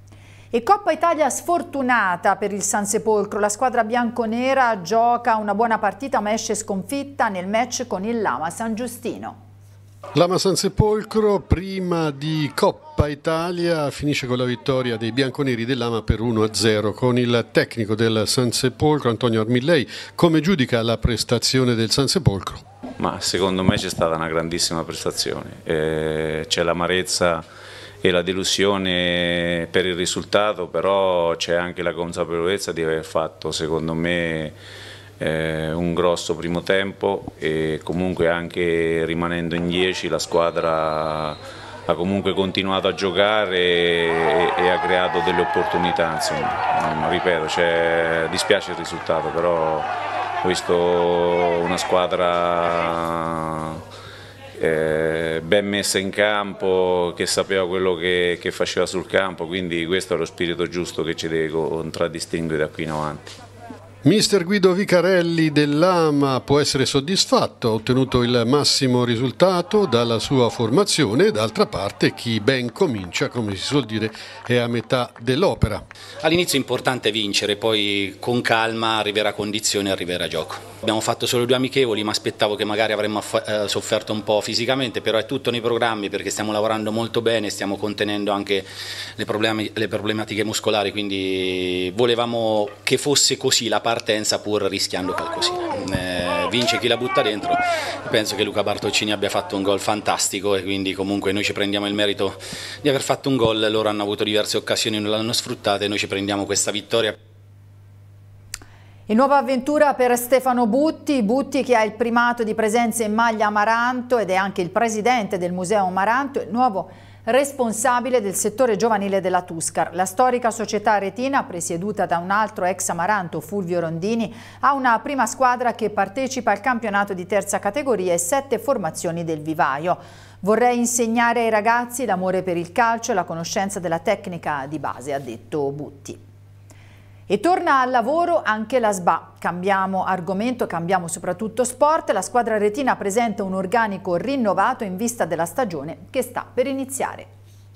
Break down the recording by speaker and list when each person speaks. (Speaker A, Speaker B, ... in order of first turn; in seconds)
Speaker A: 0.5-9.4, 109.1-136.2, 137.3-147.3
Speaker B: 10.1-22.6, 64.0-75.8
Speaker C: 23.0-27.4, 28.0-34.5, 35.2-49.9, 50.4-53.8, 54.6-63.3
Speaker D: 76.2-107.2